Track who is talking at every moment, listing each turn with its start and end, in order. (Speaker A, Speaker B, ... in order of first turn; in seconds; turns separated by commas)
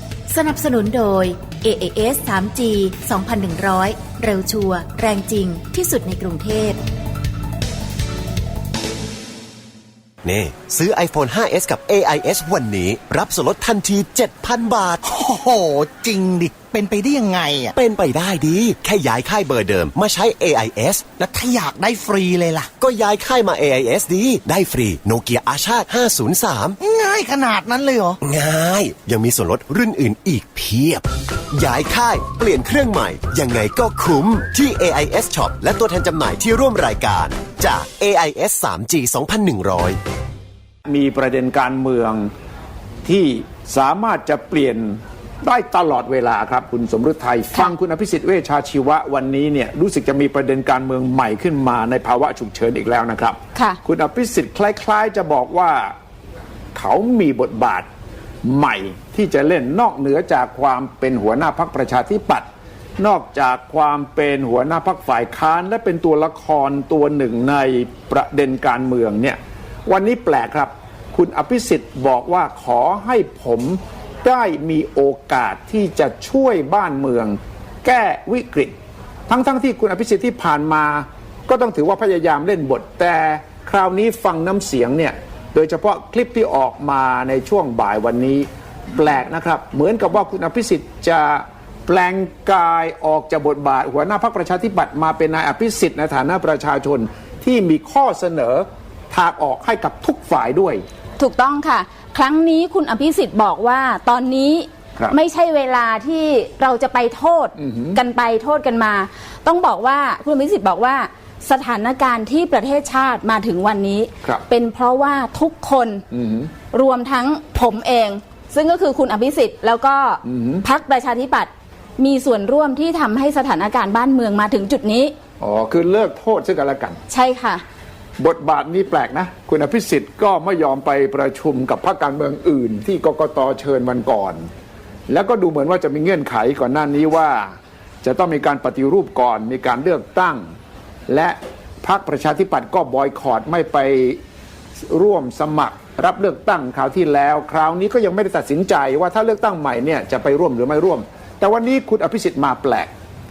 Speaker A: 0.3-6.8, Speaker B: 10.2-15.0, Speaker C: 15.1-17.7, Speaker B: 17.7-21.2, Speaker C: 21.2-22.7, Speaker B: 22.8-26.8, Speaker C: 26.8-28.1, Speaker B: 28.2-40.0, Speaker D: 40.9-42.3, Speaker D: 43.0-55.9, Speaker E: 53.5-53.8, Speaker D: 56.7-57.9, Speaker D: 58.4-62.5, Speaker D: 63.0-78.7, Speaker D: 79.3-100.8, Speaker E: 101.2-116.0, Speaker D: 107.6-108.0, Speaker D: 116.1-116.5, Speaker E: 116.7-125.1, Speaker D: 120.2-120.6, Speaker D: 125.4-127.0, Speaker E: 127.1-127.6, Speaker D: 128.2-134.4, Speaker D: 135.1-140.4, Speaker D: 141.1-144.2, Speaker D: 144.9-152.9